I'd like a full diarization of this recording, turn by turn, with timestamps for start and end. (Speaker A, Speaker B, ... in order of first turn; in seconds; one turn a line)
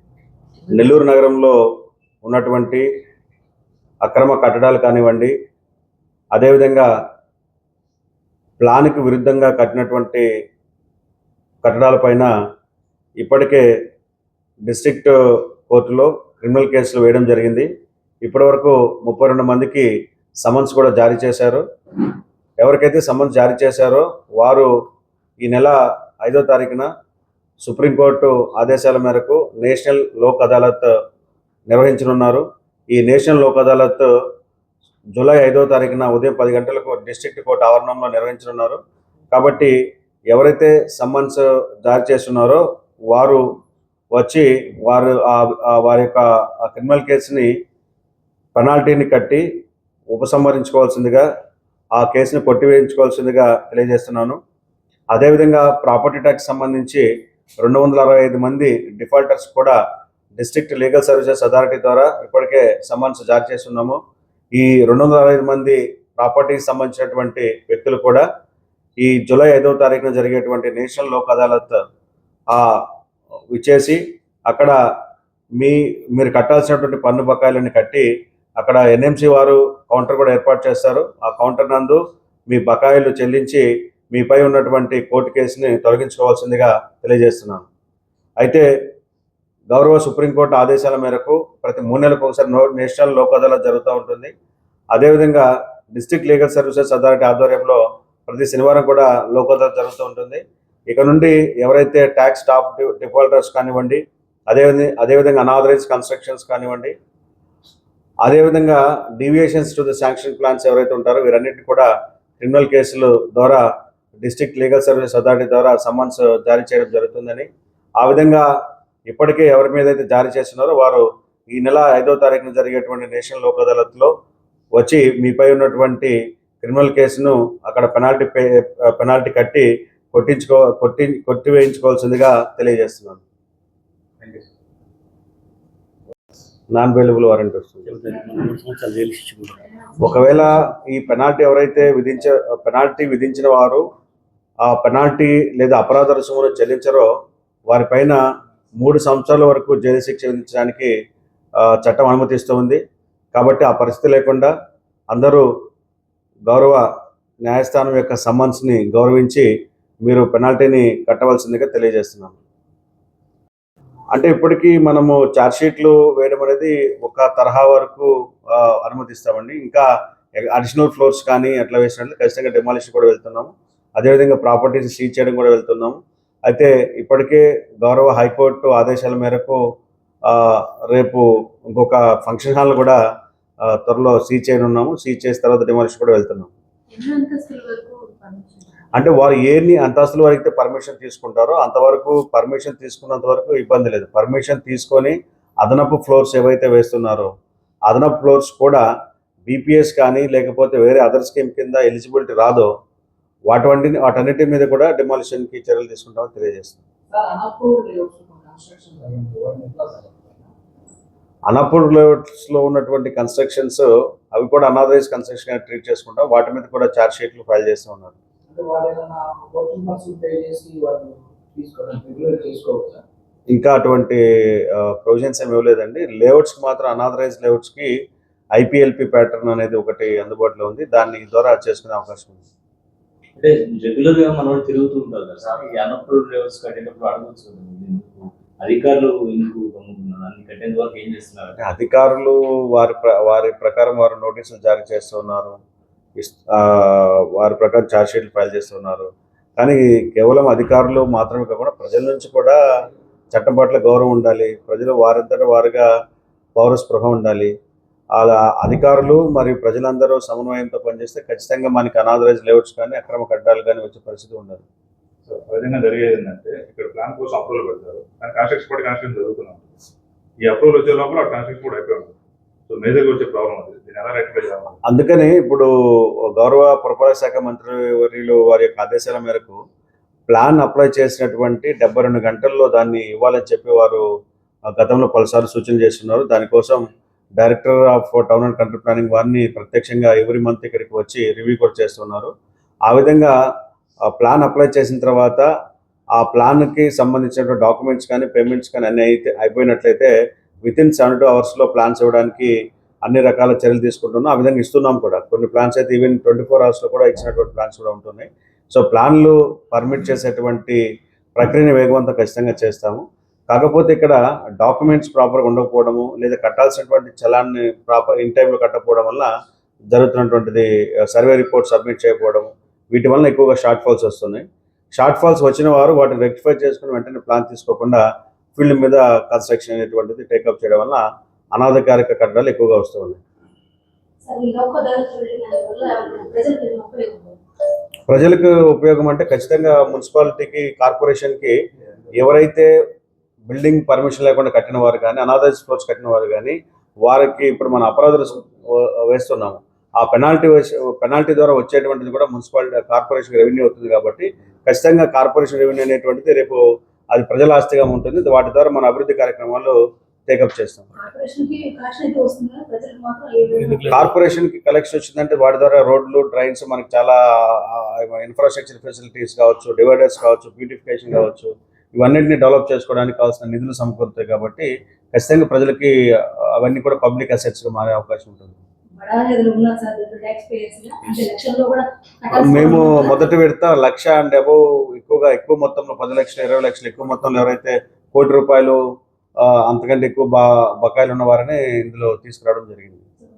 Speaker A: 0.7-1.5
Speaker A: 2.2-2.8
Speaker A: 4.0-5.3
Speaker A: 6.3-6.9
Speaker A: 8.6-10.2
Speaker A: 11.6-12.3
Speaker A: 13.2-13.6
Speaker A: 14.7-15.1
Speaker A: 15.7-17.7
Speaker A: 18.2-19.9
Speaker A: 20.4-21.6
Speaker A: 22.6-24.7
Speaker A: 25.4-26.9
Speaker A: 27.6-30.9
Speaker A: 31.7-34.1
Speaker A: 35.1-38.8
Speaker A: 39.3-39.7
Speaker A: 40.3-43.4
Speaker A: 44.1-47.5
Speaker A: 48.5-49.4
Speaker A: 50.1-51.2
Speaker A: 51.9-54.4
Speaker A: 55.1-57.0
Speaker A: 57.6-59.7
Speaker A: 60.4-64.0
Speaker A: 64.5-68.2
Speaker A: 69.0-71.8
Speaker A: 72.5-72.8
Speaker A: 73.5-74.7
Speaker A: 75.6-78.0
Speaker A: 78.6-87.7
Speaker A: 88.4-88.7
Speaker A: 89.7-94.3
Speaker A: 94.9-106.9
Speaker A: 108.2-111.9
Speaker A: 112.4-113.6
Speaker A: 114.2-117.5
Speaker A: 118.0-118.5
Speaker A: 119.1-124.1
Speaker A: 124.8-133.2
Speaker A: 136.7-137.9
Speaker B: 137.9-139.6
Speaker A: 140.0-143.8
Speaker A: 144.6-147.1
Speaker A: 147.7-148.2
Speaker A: 148.8-150.9
Speaker A: 151.7-152.8
Speaker A: 153.3-154.5
Speaker A: 155.1-155.4
Speaker A: 156.5-156.8
Speaker A: 157.4-159.5
Speaker A: 160.1-162.3
Speaker A: 164.1-169.8
Speaker A: 170.4-179.6
Speaker A: 180.3-183.0
Speaker A: 183.8-186.5
Speaker C: 186.9-188.7
Speaker A: 188.9-197.3
Speaker A: 197.9-198.8
Speaker A: 199.5-202.7
Speaker A: 203.5-206.8
Speaker D: 207.1-210.5
Speaker A: 211.5-218.1
Speaker D: 218.5-223.0
Speaker A: 223.5-224.2
Speaker A: 224.7-227.9
Speaker A: 228.6-232.4
Speaker B: 233.3-241.6
Speaker A: 241.6-245.6
Speaker A: 246.2-252.6
Speaker A: 253.3-255.9
Speaker A: 256.5-257.5
Speaker A: 258.1-264.6
Speaker E: 265.2-269.8
Speaker E: 270.4-272.1
Speaker E: 272.7-274.8
Speaker A: 274.9-275.7
Speaker A: 276.4-279.6
Speaker A: 280.3-284.0
Speaker A: 284.7-286.8
Speaker A: 287.4-292.3
Speaker A: 292.9-293.3
Speaker A: 294.1-295.5
Speaker A: 296.1-300.1
Speaker A: 300.6-302.5
Speaker A: 303.0-310.8
Speaker A: 311.4-319.3
Speaker A: 319.9-328.0
Speaker A: 328.6-331.0
Speaker A: 331.5-333.2
Speaker C: 334.2-337.4
Speaker A: 338.1-341.5
Speaker A: 342.2-342.7
Speaker A: 343.5-359.8
Speaker A: 360.3-360.9
Speaker C: 361.0-364.1
Speaker B: 363.6-364.0
Speaker A: 363.9-375.9
Speaker A: 376.5-378.6
Speaker C: 379.0-383.2
Speaker A: 382.3-388.8
Speaker A: 389.4-393.0